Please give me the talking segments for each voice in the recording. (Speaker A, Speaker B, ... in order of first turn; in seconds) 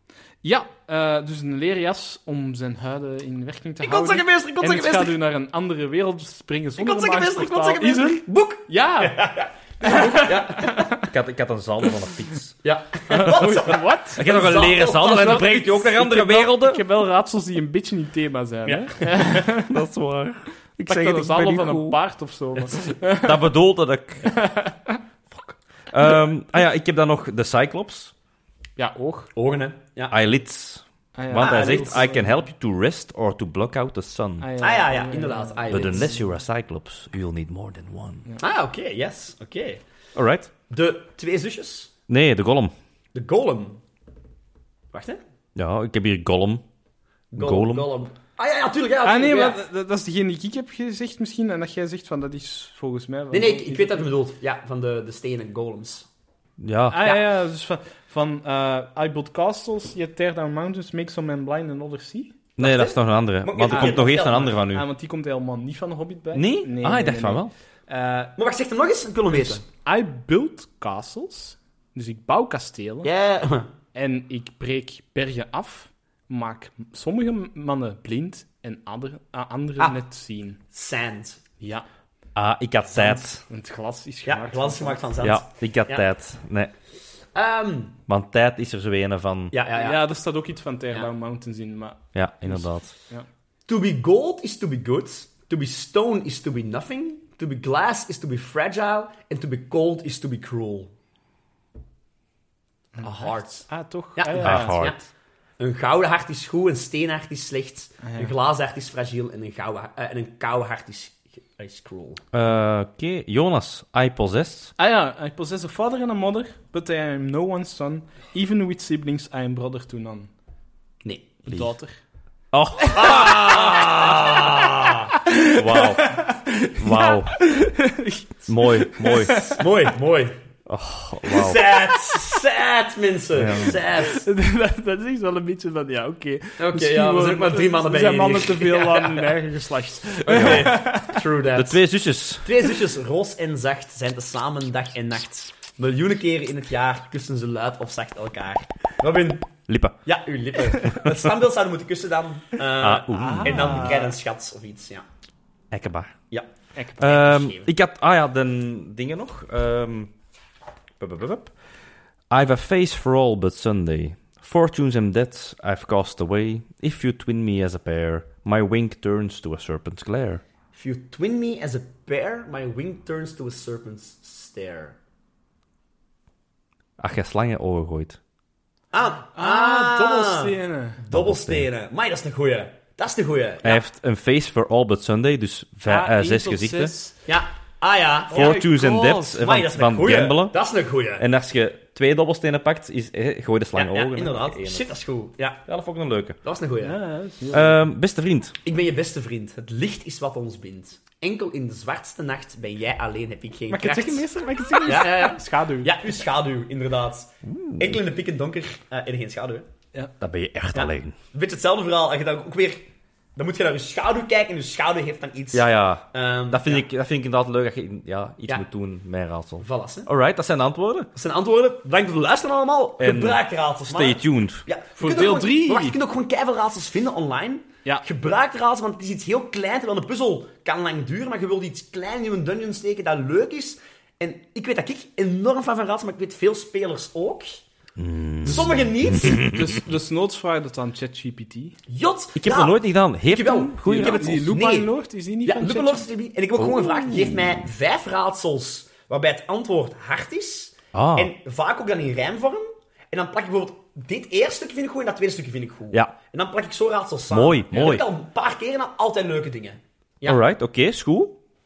Speaker A: 0.4-11.1, 13.1-19.8, 20.9-23.5, 24.2-25.0, 28.8-29.3, 31.1-32.4, 34.4-36.1, 49.0-54.1, 56.9-62.4, 63.7-68.3, 69.3-73.1, 74.0-80.6, 81.6-81.8, 83.0-85.0, 89.8-93.3, 103.0-104.9, 108.0-108.3, 114.8-120.3, 121.5-122.0, 122.8-123.1, 125.1-129.7, 134.0-141.2, 153.2-154.1, 156.8-157.2, 179.3-181.0, 185.9-187.2, 188.3-189.2, 196.8-197.8, 203.7-205.9, 225.0-226.0, 239.1-241.8, 243.8-246.1
Speaker B: 3.8-5.2, 6.8-10.9, 12.6-15.6, 18.7-19.1, 29.4-30.2, 31.3-32.1, 34.6-36.1, 38.4-39.8, 40.7-41.9, 43.1-43.8, 44.9-45.2, 47.3-49.6, 53.3-56.1, 62.6-64.5, 68.4-69.6, 73.0-73.7, 80.7-81.4, 84.3-86.1, 87.3-88.0, 89.5-90.1, 93.7-100.9, 103.0-103.6, 104.2-105.0, 105.6-112.2, 121.0-121.4, 122.9-125.1, 129.6-130.3, 131.3-134.2, 136.6-139.3, 140.2-141.8, 142.4-149.5, 150.0-155.1, 156.3-157.7, 170.7-175.0, 178.9-183.8, 187.3-191.2, 193.8-195.6, 196.4-197.0, 198.6-204.3, 204.8-209.7, 210.7-216.8, 219.6-220.1, 221.1-237.6, 238.4-239.5, 241.9-244.9, 245.4-260.4
Speaker C: 11.0-12.6, 14.2-16.8, 19.7-22.0, 23.2-24.3, 25.3-28.1, 30.1-34.5, 35.7-38.3, 40.1-40.5, 42.1-42.7, 45.6-46.6, 47.4-47.9, 56.6-57.1, 62.6-64.8, 66.3-67.5, 82.3-83.4, 85.2-86.7, 88.1-89.5, 92.2-92.9, 104.3-105.0, 112.3-114.7, 122.5-123.9, 125.5-126.2, 126.8-127.5, 128.5-129.6, 130.7-131.6, 133.4-133.8, 140.3-140.7, 141.6-142.5, 149.7-150.0, 150.8-151.1, 152.8-154.0, 155.7-156.2, 157.0-160.1, 161.0-161.5, 162.3-170.4, 177.0-178.2, 181.1-181.7, 183.6-186.9, 188.3-190.6, 191.2-194.9, 195.7-196.4, 197.5-198.6, 207.4-208.0, 210.2-211.2, 215.5-221.1, 223.0-224.7, 238.0-239.8, 242.4-244.4, 246.6-247.5, 250.9-251.3, 257.3-258.0, 260.3-261.4